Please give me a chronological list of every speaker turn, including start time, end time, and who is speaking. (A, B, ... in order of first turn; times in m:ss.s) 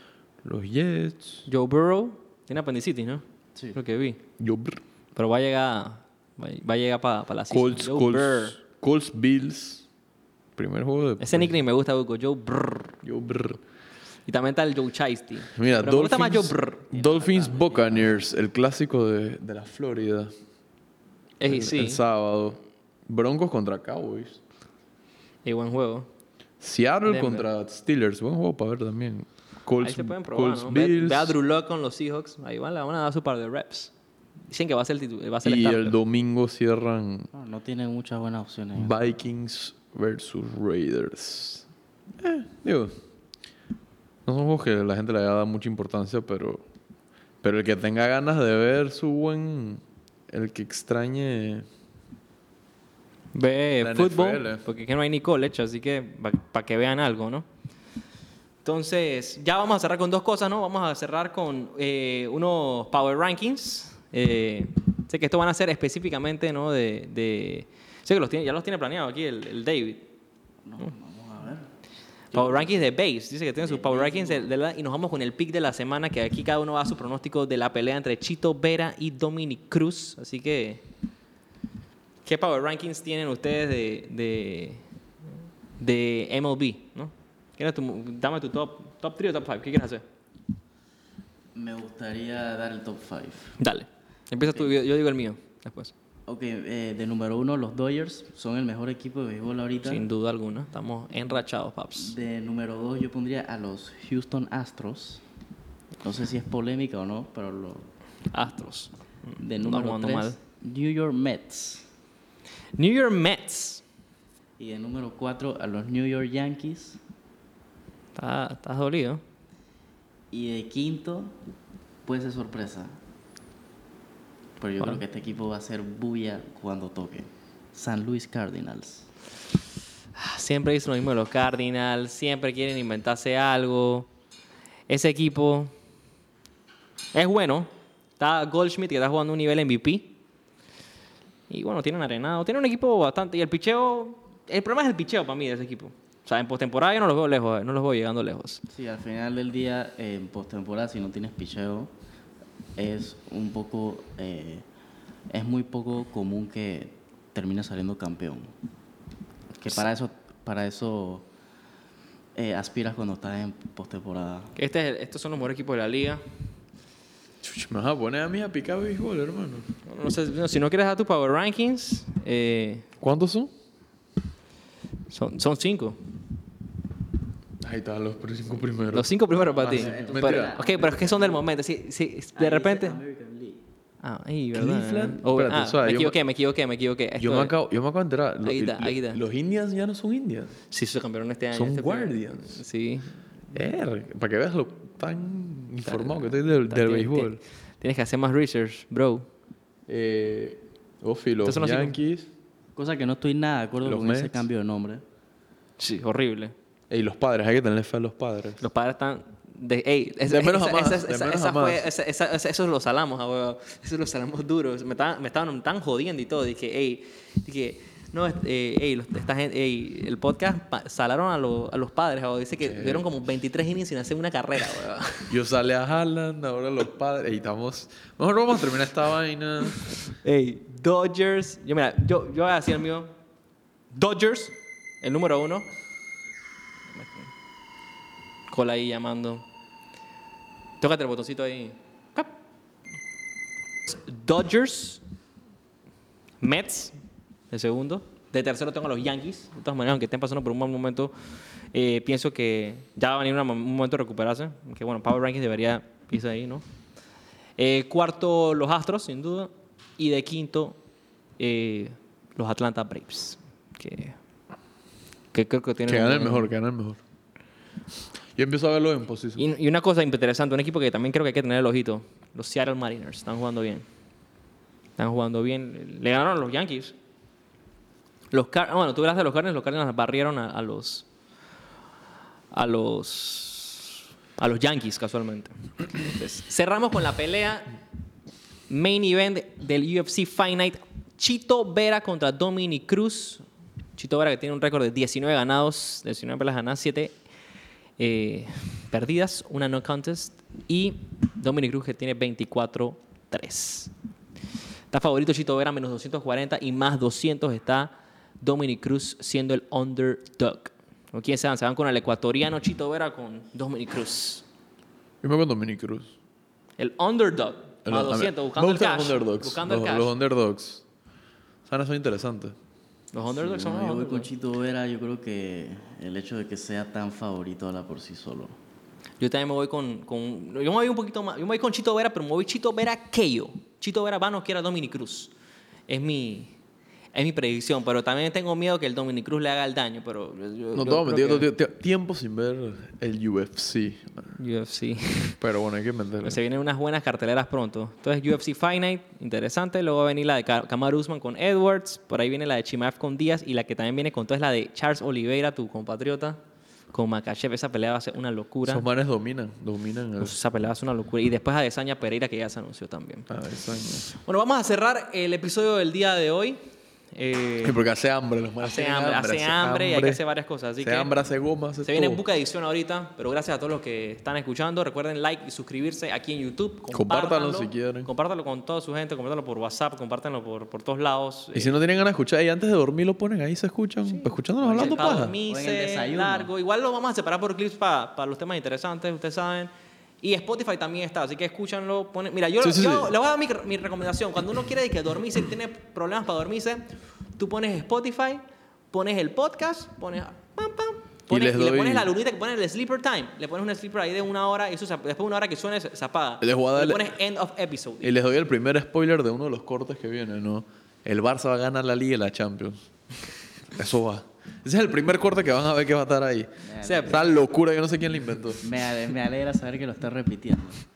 0:00.4-0:01.5 A
0:01.5-0:03.2 B
0:03.8-0:04.2 B
0:04.4-0:04.8 A
0:05.2-0:08.6 B
0:07.5-0:09.9 A
0:10.6-0:11.5 A
0:11.2-0:13.0 B
0:13.0-0:13.6 A
0:14.3-0:16.9 B
0:15.6-0:20.3 A
0:16.9-0:18.3 C
0:21.4-0:22.0 B
0:21.4-0:24.4 A
0:25.4-0:26.1 B
0:26.6-0:31.4 A
0:27.1-0:27.5 B
0:29.8-0:33.9 B
0:34.5-0:36.0 B
0:35.4-0:37.3 A
0:37.3-0:39.0 C
0:38.8-0:41.7 A
0:42.2-0:42.9 A
0:44.2-0:46.6 A
0:47.4-0:51.7 A
0:53.3-0:57.5 B
0:53.8-0:54.6 A
0:58.6-1:10.1 B
1:10.6-1:11.7 C
1:12.3-1:20.8 B
1:12.4-1:12.8 C
1:13.6-1:14.5 C
1:22.2-1:24.8 B
1:25.8-1:30.0 B
1:31.6-1:33.6 C
1:33.6-1:35.9 B
1:34.5-1:34.8 C
1:36.3-1:40.0 C
1:39.8-1:42.2 B
1:42.0-1:45.2 C
1:46.0-1:47.9 C
1:48.3-1:50.4 B
1:49.4-1:51.9 C
1:52.8-1:53.8 B
1:54.6-1:57.0 C
1:58.2-1:59.2 B
2:00.3-2:01.4 C
2:02.0-2:03.0 C
2:04.6-2:09.1 C
2:10.2-2:14.1 B
2:14.9-2:15.7 B
2:17.1-2:20.2 B
2:21.5-2:28.6 B
2:28.7-2:31.9 C
2:32.8-2:34.6 C
2:35.3-2:38.5 C
2:39.6-2:41.3 C
2:42.4-2:44.5 C
2:44.6-2:46.2 B
2:47.4-2:49.7 A
2:49.9-2:52.9 B
2:53.0-2:53.5 A
2:55.1-2:56.0 B
2:57.6-3:00.5 A
2:58.9-3:03.0 B
2:59.6-3:01.4 C
3:02.4-3:03.6 C
3:04.0-3:07.5 B
3:04.5-3:06.2 A
3:07.2-3:10.6 A
3:08.4-3:09.2 B
3:10.7-3:13.2 B
3:11.5-3:12.6 A
3:13.5-3:17.4 A
3:15.8-3:19.3 B
3:19.9-3:22.3 A
3:21.4-3:22.0 B
3:22.8-3:25.0 C
3:23.8-3:24.4 A
3:25.8-3:26.5 B
3:26.9-3:28.6 A
3:28.6-3:45.3 B
3:30.3-3:31.9 A
3:42.6-3:43.1 A
3:45.3-3:49.8 A
3:50.2-3:53.1 B
3:53.9-3:55.7 B
3:57.0-3:57.3 B
3:58.5-3:59.4 B
4:00.8-4:02.3 B
4:03.9-4:05.0 B
4:06.4-4:07.0 B
4:07.5-4:11.1 B
4:11.7-4:16.6 B
4:17.6-4:20.8 B
4:21.4-4:24.2 B
4:25.3-4:26.5 B
4:25.8-4:27.0 A
4:28.4-4:29.5 A
4:29.4-4:33.8 B
4:35.0-4:36.9 B
4:38.3-4:41.1 B
4:42.5-4:47.7 B
4:48.7-4:53.4 B
4:54.0-4:57.2 B
4:58.0-5:03.9 B
5:04.9-5:14.4 B
5:15.2-5:16.1 A
5:16.8-5:20.1 B
5:17.8-5:20.8 A
5:21.7-5:22.6 A
5:23.1-5:24.3 B
5:23.3-5:28.6 C
5:29.2-5:35.3 B
5:35.9-5:36.6 B
5:37.1-5:41.5 B
5:40.8-5:44.3 A
5:44.4-5:45.4 B
5:45.4-5:46.4 A
5:46.2-5:56.4 B
5:56.9-5:58.9 B
5:58.6-6:00.4 A
6:00.2-6:03.3 B
6:03.3-6:04.1 A
6:04.1-6:06.6 B
6:07.1-6:07.8 B
6:07.6-6:10.2 A
6:08.6-6:11.1 B
6:10.8-6:12.2 A
6:11.8-6:21.8 B
6:16.9-6:18.1 A
6:21.5-6:25.4 A
6:24.2-6:36.9 B
6:24.6-6:26.5 C
6:32.6-6:33.1 A
6:37.4-6:48.1 B
6:41.3-6:42.1 A
6:46.4-6:47.1 A
6:48.0-6:52.8 A
6:53.7-6:58.6 A
6:56.6-6:57.2 C
6:56.8-6:57.3 B
6:58.6-7:00.8 C